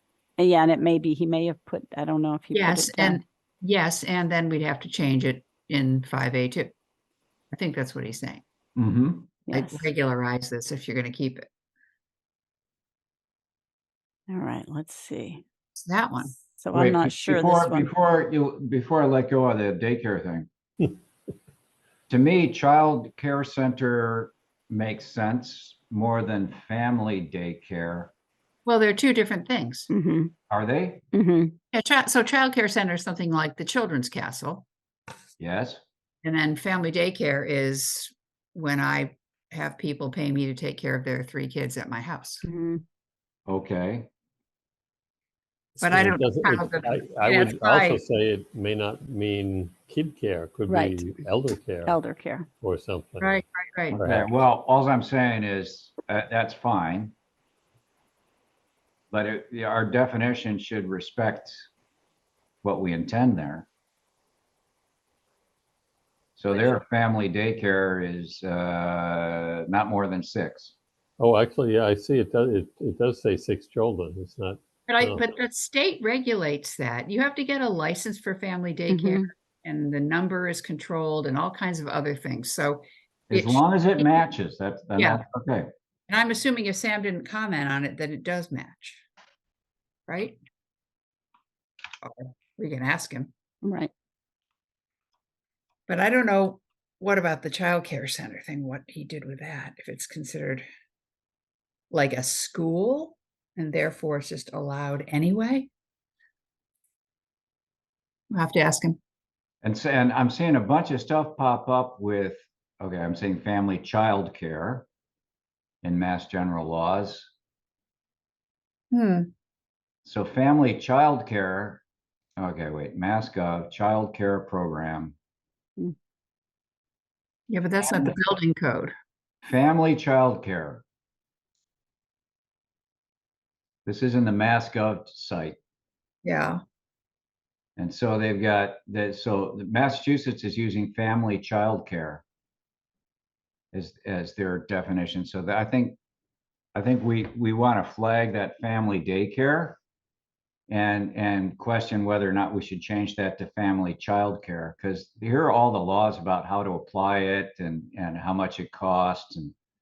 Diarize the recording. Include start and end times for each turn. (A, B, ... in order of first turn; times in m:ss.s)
0:00.4-0:03.2 A
0:02.5-0:06.7 B
0:07.5-0:08.4 B
0:08.8-0:09.3 C
0:09.5-0:09.9 A
0:09.5-0:11.5 B
0:14.3-0:15.4 A
0:15.7-0:16.3 B
0:16.5-0:17.9 A
0:16.7-0:20.5 C
0:22.1-0:28.1 C
0:28.6-0:29.9 B
0:29.9-0:30.3 A
0:30.5-0:31.0 C
0:31.1-0:31.6 A
0:31.7-0:34.6 B
0:35.4-0:35.8 C
0:36.2-0:42.4 B
0:42.4-0:42.8 A
0:43.5-0:44.1 C
0:45.8-0:52.0 D
0:45.8-0:48.0 B
0:50.7-0:51.1 A
0:51.8-0:52.5 A
0:52.6-0:53.4 D
0:53.2-0:54.0 B
0:53.9-0:57.1 C
0:53.9-0:54.3 D
0:59.1-1:01.7 C
1:02.6-1:03.7 C
1:06.4-1:10.7 C
1:11.2-1:15.2 D
1:14.9-1:23.6 B
1:18.9-1:19.3 A
1:23.3-1:25.7 C
1:25.0-1:25.2 B
1:26.1-1:29.0 B
1:30.1-1:30.4 B
1:32.0-1:33.3 B
1:33.6-1:33.9 A
1:35.9-1:40.6 B
1:41.9-1:45.7 B
1:48.3-1:49.0 B
1:49.6-1:54.9 C
1:55.8-1:57.3 C
1:58.9-1:59.3 B
2:00.0-2:01.8 C
2:02.4-2:05.1 C
2:07.5-2:08.9 B
2:09.4-2:10.8 C
2:13.8-2:15.6 C
2:16.2-2:16.6 B
2:17.8-2:22.2 C
2:23.7-2:26.0 C
2:26.7-2:29.8 C
2:30.7-2:39.5 C